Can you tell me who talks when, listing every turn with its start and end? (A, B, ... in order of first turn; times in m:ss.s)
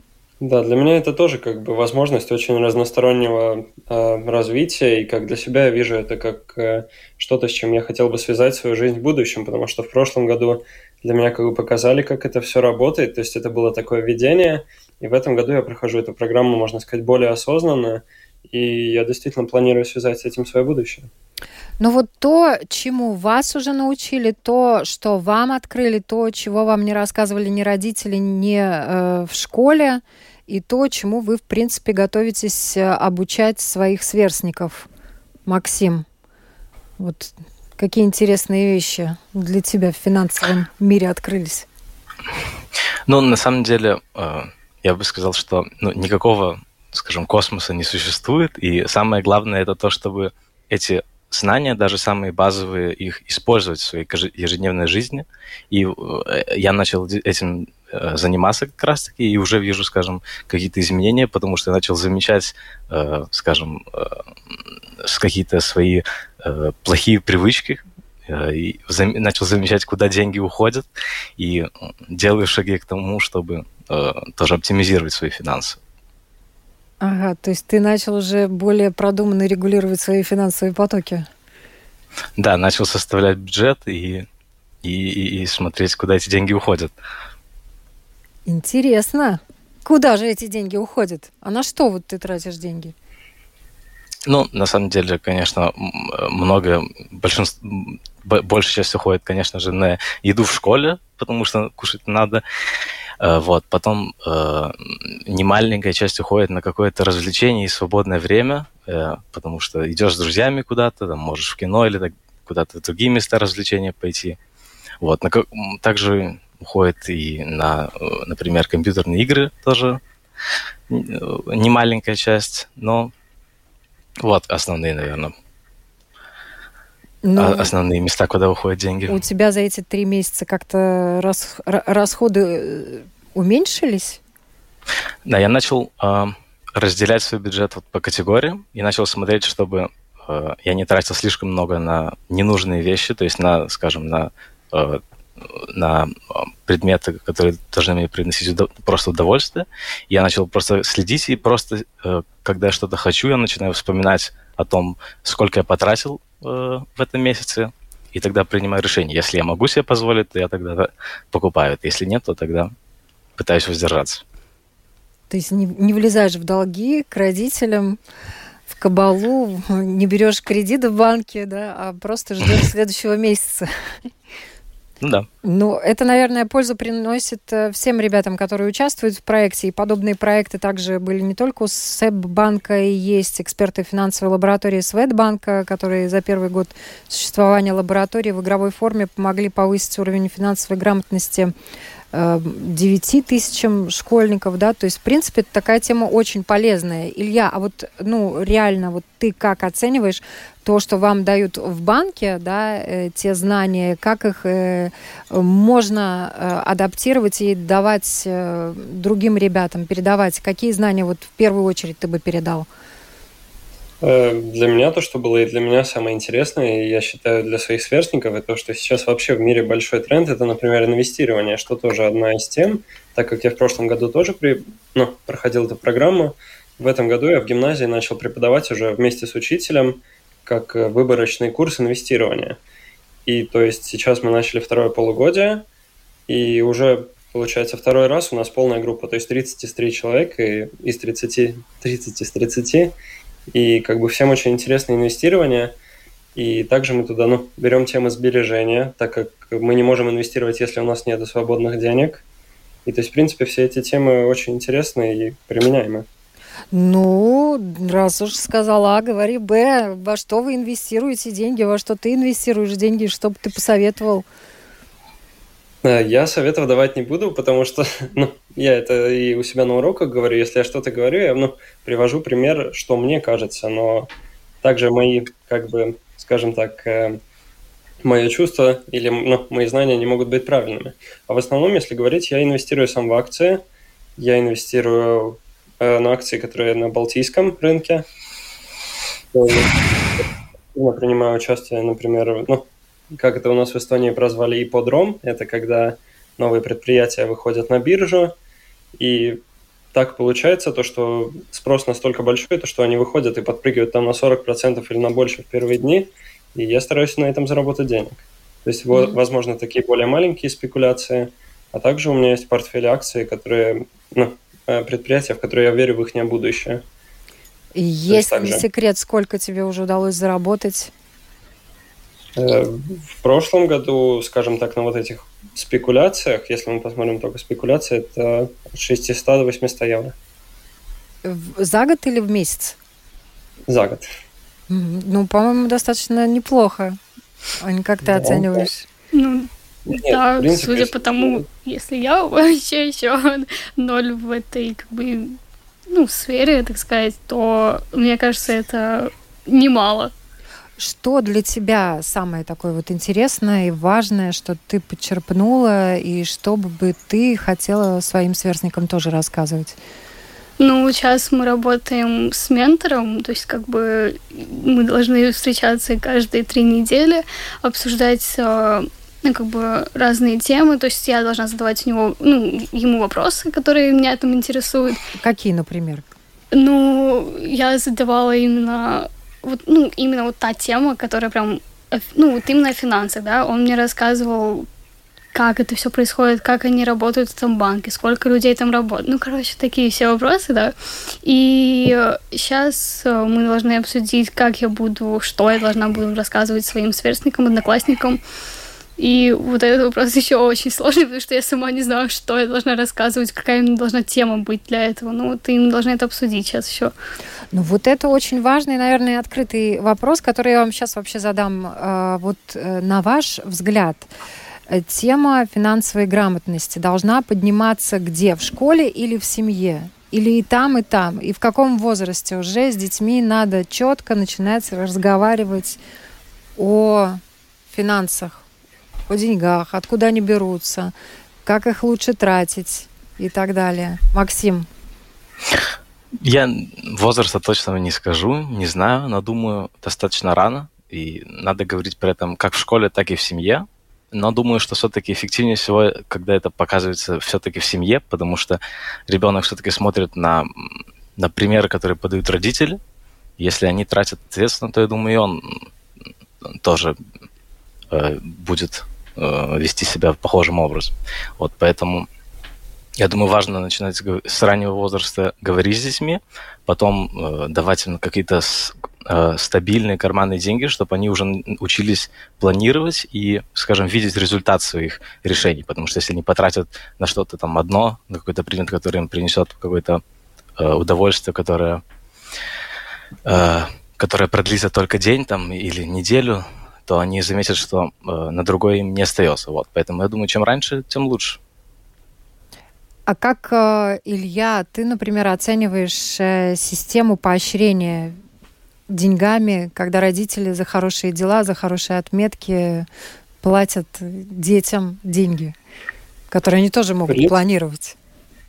0:00.4-0:21.1 A
0:21.8-0:34.9 B
0:35.4-0:36.0 B
0:37.0-0:41.7 B
0:43.1-1:10.8 C
1:11.4-1:15.8 C
1:17.0-1:21.3 B
1:22.4-1:24.2 C
1:24.8-1:26.9 C
1:28.4-1:32.9 B
1:34.2-1:42.4 C
1:43.2-1:54.4 C
1:55.0-2:00.0 C
2:00.9-2:03.1 C
2:04.2-2:05.3 C
2:07.2-2:07.7 B
2:07.4-2:09.2 C
2:09.1-2:14.2 B
2:15.2-2:42.7 C
2:43.4-2:44.2 C
2:45.3-2:48.0 B
2:48.7-2:53.7 B
2:55.0-2:55.3 C
2:55.4-3:11.5 B
3:12.1-3:32.7 B
3:34.0-3:52.6 A
3:53.2-3:55.6 A
3:56.3-4:03.0 A
4:03.5-4:05.8 A
4:06.3-4:12.2 A
4:12.8-4:16.0 A
4:16.7-4:24.2 B
4:25.8-4:34.1 A
4:34.6-4:37.2 A
4:38.0-4:43.6 A
4:44.2-4:48.0 A
4:49.3-4:58.4 A
4:59.0-5:16.8 A
5:17.7-5:20.9 B
5:18.1-5:18.6 A
5:22.4-5:30.1 A
5:31.2-5:32.8 B
5:33.7-5:34.0 A
5:34.7-5:37.0 B
5:37.6-5:38.8 B
5:38.1-5:38.7 A
5:39.1-5:45.4 D
5:39.8-5:41.4 A
5:45.9-5:50.1 D
5:50.8-5:59.8 B
6:00.6-6:15.0 D
6:15.2-6:16.0 B
6:16.5-6:24.7 D
6:25.3-6:38.2 D
6:39.0-6:46.9 D
6:47.5-6:54.1 B
6:54.7-7:05.8 B
7:06.6-7:08.4 B
7:09.1-7:10.9 B
7:11.4-7:14.7 B
7:16.2-7:32.8 C
7:33.4-7:35.7 C
7:36.4-7:37.0 C
7:37.9-7:42.1 C
7:43.0-8:00.0 C
8:00.6-8:01.8 C
8:03.2-8:11.4 C
8:13.1-8:18.2 B
8:18.9-8:22.9 B
8:23.4-8:25.5 B
8:26.3-8:28.0 B
8:27.1-8:27.4 A